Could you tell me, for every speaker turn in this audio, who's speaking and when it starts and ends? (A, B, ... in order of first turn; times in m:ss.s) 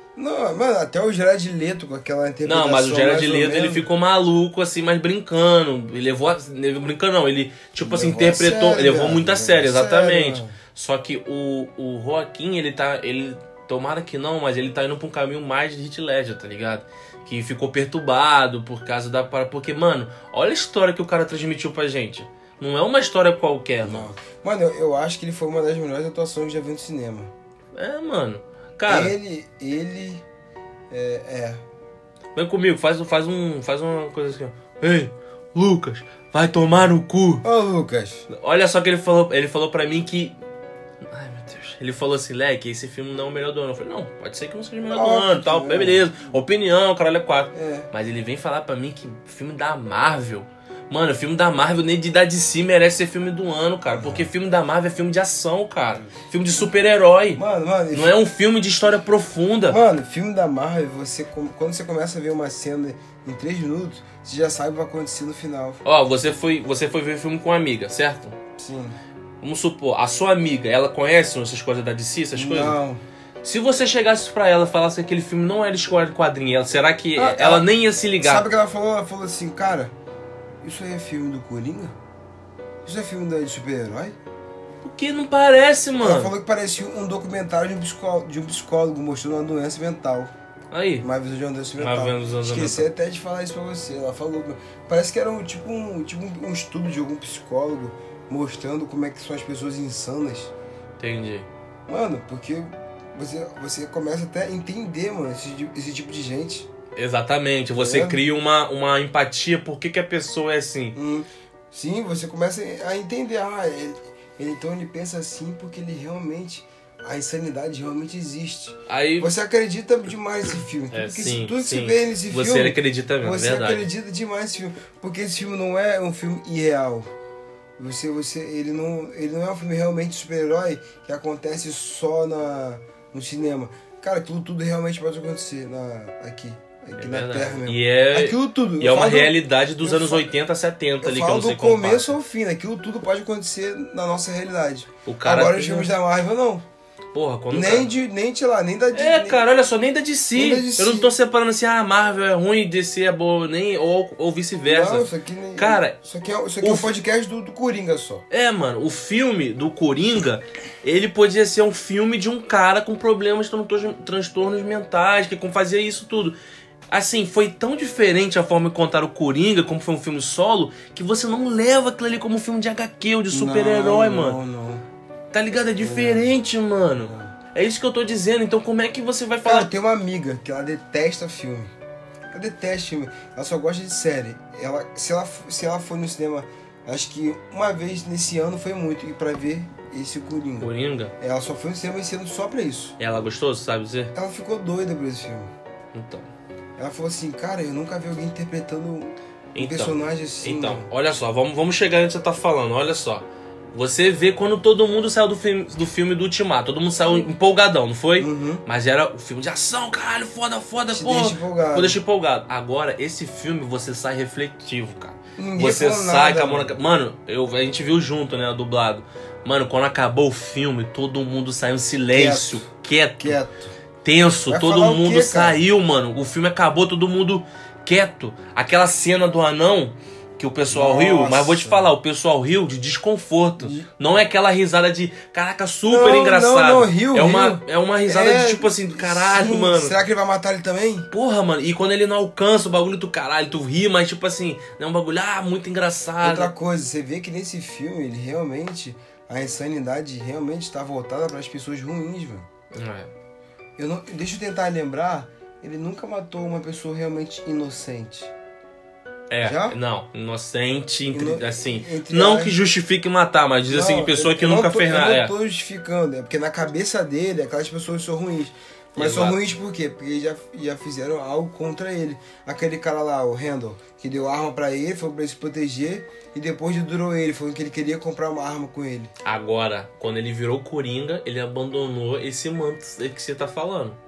0:00.2-0:03.9 A
0:02.4-0:24.1 B
0:07.8-0:10.6 A
0:23.8-0:27.3 A
0:27.8-0:29.1 B
0:28.9-0:30.2 A
0:30.9-0:31.6 A
0:32.4-0:37.4 B
0:37.4-0:38.3 A
0:38.3-0:40.4 B
0:41.0-0:59.8 B
0:44.9-0:46.1 A
0:47.5-0:47.9 A
0:53.9-0:54.3 A
0:57.4-0:58.2 A
0:59.7-1:05.8 A
1:05.8-1:08.4 B
1:08.6-1:09.0 A
1:09.4-1:12.8 B
1:12.3-1:13.0 A
1:13.4-1:18.5 B
1:17.2-1:17.7 A
1:18.2-1:19.9 A
1:20.6-1:22.0 A
1:22.8-1:24.2 A
1:24.8-1:26.3 B
1:26.0-1:30.3 A
1:30.7-1:31.1 B
1:31.0-1:40.5 A
1:31.8-1:32.9 B
1:41.0-1:41.5 B
1:41.9-1:46.7 A
1:47.0-1:51.0 B
1:47.8-1:48.2 A
1:51.0-2:07.1 A
1:58.9-1:59.3 B
2:00.9-2:03.9 B
2:07.8-2:20.3 A
2:17.0-2:22.1 B
2:21.0-2:26.6 A
2:25.1-2:25.9 B
2:27.1-2:27.9 B
2:27.5-2:29.4 A
2:28.9-2:36.0 B
2:30.4-2:31.1 A
2:34.6-2:38.2 A
2:36.6-2:36.9 B
2:38.3-2:46.4 B
2:46.9-2:54.4 B
2:53.3-2:54.8 A
2:55.3-2:59.7 B
2:55.8-2:56.4 A
2:57.0-2:57.3 A
2:59.4-3:01.7 A
3:02.3-3:13.0 A
3:10.6-3:11.1 B
3:13.0-3:14.1 B
3:14.1-3:15.5 A
3:15.9-3:16.3 B
3:16.8-3:20.9 A
3:19.6-3:43.4 B
3:28.2-3:28.6 A
3:30.9-3:32.0 A
3:35.4-3:36.8 A
3:42.1-3:42.6 A
3:43.2-3:43.7 A
3:44.0-4:00.0 B
3:44.5-3:45.6 A
3:50.7-3:51.9 A
3:53.6-3:53.9 A
3:55.9-4:01.1 A
4:01.1-4:06.5 B
4:06.2-4:12.5 A
4:12.7-4:13.1 B
4:13.8-4:18.3 A
4:19.3-4:25.3 B
4:19.4-4:19.8 A
4:21.1-4:22.6 A
4:23.7-4:39.1 A
4:29.0-4:29.4 B
4:39.2-4:44.0 B